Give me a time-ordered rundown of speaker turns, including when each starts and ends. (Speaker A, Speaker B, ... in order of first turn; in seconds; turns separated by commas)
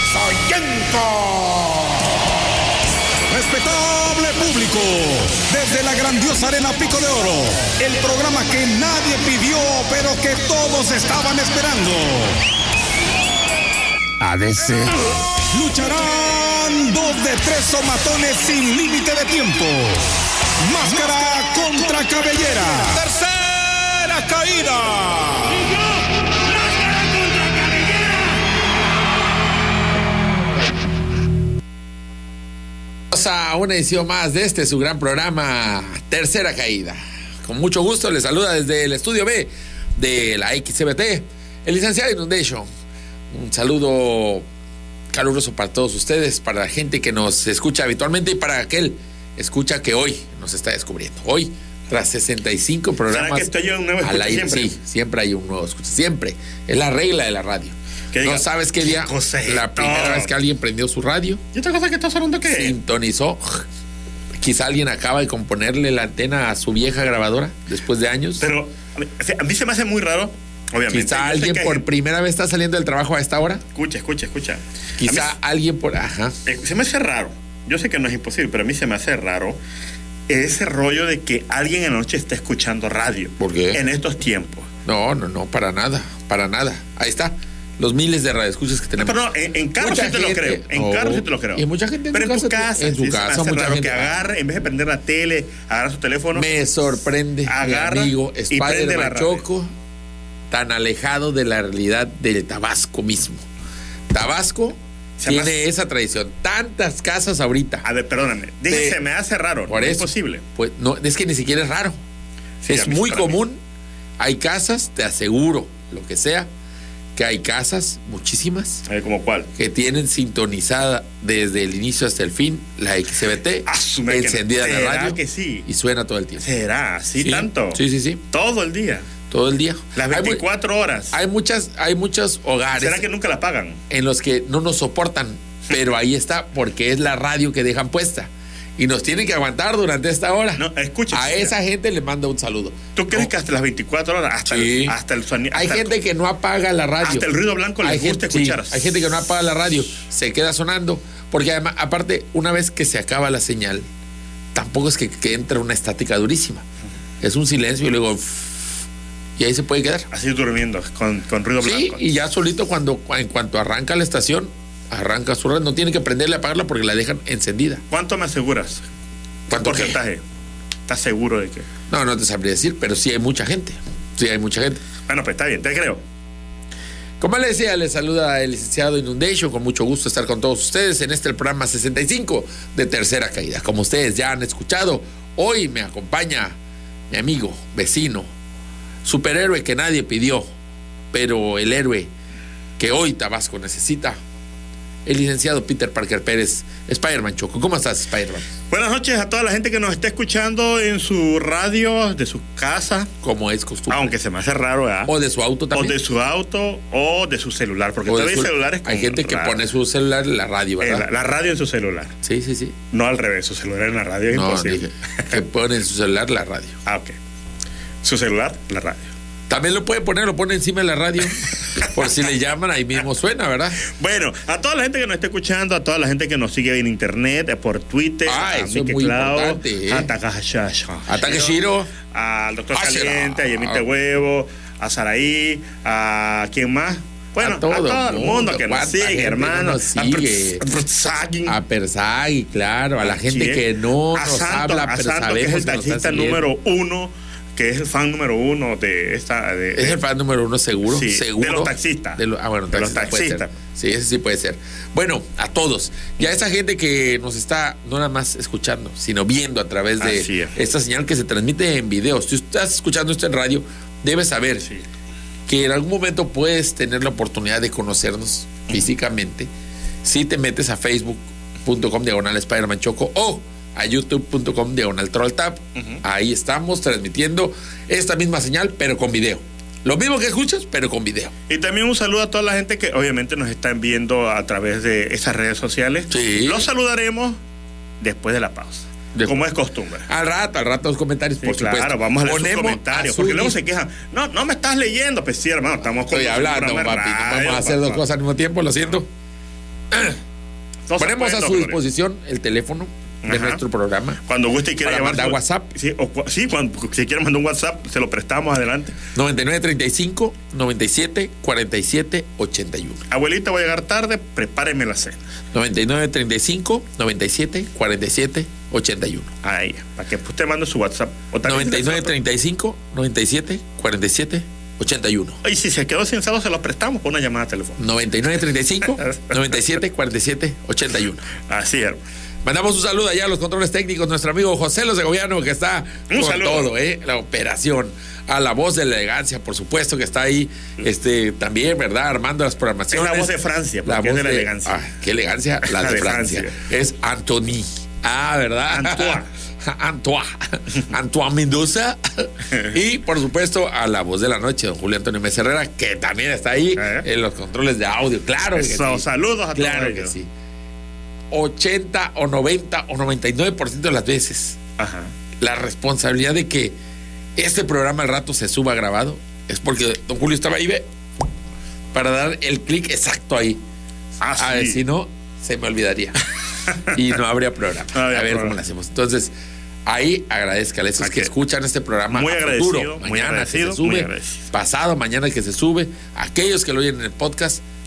Speaker A: 0.1-2.0, Speaker A: 3.3-12.4, Speaker A: 14.2-15.0, Speaker A: 15.5-20.1, Speaker A: 20.6-25.7, Speaker B: 33.1-42.7, Speaker B: 43.3-44.5, Speaker B: 45.1-61.4, Speaker C: 53.1-54.8, Speaker C: 58.1-60.3, Speaker C: 61.5-62.8, Speaker B: 62.5-63.6, Speaker B: 64.4-68.4, Speaker C: 68.4-71.8, Speaker B: 70.9-73.6, Speaker C: 73.7-75.3, Speaker B: 75.0-76.3, Speaker C: 76.5-79.6, Speaker C: 80.3-84.7, Speaker B: 83.4-83.8, Speaker B: 84.8-89.2, Speaker C: 89.0-96.5, Speaker B: 89.8-94.1, Speaker B: 96.3-99.7, Speaker C: 97.5-99.4, Speaker B: 100.5-103.4, Speaker B: 104.1-107.8, Speaker C: 105.2-105.6, Speaker C: 107.8-110.4, Speaker B: 108.7-109.0, Speaker B: 109.7-112.0, Speaker C: 112.6-113.4, Speaker B: 112.6-113.6, Speaker B: 114.2-116.5, Speaker B: 117.2-118.8, Speaker C: 118.8-119.5, Speaker B: 119.6-126.4, Speaker C: 123.7-125.7, Speaker C: 126.4-129.1, Speaker B: 127.2-128.2, Speaker B: 129.3-130.4, Speaker C: 129.9-131.2, Speaker B: 131.1-133.0, Speaker C: 132.8-133.8, Speaker B: 133.9-143.3, Speaker C: 140.6-141.5, Speaker C: 142.9-145.9, Speaker B: 144.5-144.9, Speaker B: 145.5-147.3, Speaker C: 147.0-149.0, Speaker B: 147.8-153.8, Speaker B: 154.5-156.6, Speaker B: 157.2-158.7, Speaker B: 159.4-160.1, Speaker C: 160.1-162.1, Speaker B: 161.6-167.8, Speaker C: 167.9-168.8, Speaker B: 169.5-170.0, Speaker C: 169.5-170.2, Speaker C: 170.9-171.7, Speaker B: 171.9-174.8, Speaker C: 175.1-176.0, Speaker B: 177.2-186.6, Speaker B: 187.1-188.3, Speaker B: 189.0-190.5, Speaker B: 191.1-192.1, Speaker B: 192.8-194.2, Speaker B: 195.1-198.4, Speaker C: 198.7-203.1, Speaker B: 203.2-204.1, Speaker C: 203.9-205.1, Speaker B: 205.1-205.9, Speaker C: 205.7-209.6, Speaker B: 208.1-211.1, Speaker C: 210.8-212.1, Speaker B: 212.2-212.8, Speaker C: 212.9-215.4, Speaker B: 214.3-216.8, Speaker C: 216.8-217.1, Speaker C: 218.0-219.1, Speaker B: 219.5-223.8, Speaker C: 221.5-222.1, Speaker C: 223.8-241.6, Speaker B: 228.2-230.1, Speaker B: 231.1-231.9, Speaker B: 232.7-233.8, Speaker B: 237.4-240.6, Speaker B: 241.4-246.4, Speaker C: 243.0-250.0, Speaker B: 249.7-264.6, Speaker C: 250.9-253.5, Speaker C: 260.0-260.6, Speaker B: 265.5-269.5, Speaker B: 270.0-281.3, Speaker C: 275.8-276.0, Speaker C: 281.5-287.4, Speaker B: 286.1-286.6, Speaker C: 288.0-290.1, Speaker B: 289.1-289.4, Speaker B: 290.1-293.6, Speaker C: 291.4-298.0, Speaker B: 296.1-299.1, Speaker B: 299.9-300.2, Speaker C: 300.9-301.8, Speaker B: 301.0-304.2, Speaker C: 303.2-303.6, Speaker C: 304.2-309.0, Speaker B: 304.8-305.7, Speaker B: 309.1-313.0, Speaker C: 313.1-315.3, Speaker B: 315.5-319.3, Speaker C: 319.4-322.1, Speaker B: 321.4-325.4, Speaker C: 325.4-327.8, Speaker B: 327.8-331.2, Speaker C: 328.8-329.4, Speaker C: 331.5-332.0, Speaker B: 332.4-343.3, Speaker C: 336.1-336.7, Speaker C: 342.9-344.8, Speaker B: 343.9-360.3, Speaker C: 345.6-346.6, Speaker C: 348.7-349.3, Speaker C: 356.8-357.1, Speaker C: 358.5-360.1, Speaker B: 361.3-364.6, Speaker C: 364.8-365.1, Speaker B: 365.4-366.7, Speaker B: 367.4-370.9, Speaker B: 371.9-373.6, Speaker C: 374.2-374.8, Speaker B: 374.4-376.2, Speaker C: 376.7-377.0, Speaker B: 376.9-379.3, Speaker C: 377.9-378.6, Speaker B: 379.9-387.6, Speaker C: 381.0-381.3, Speaker C: 382.1-384.5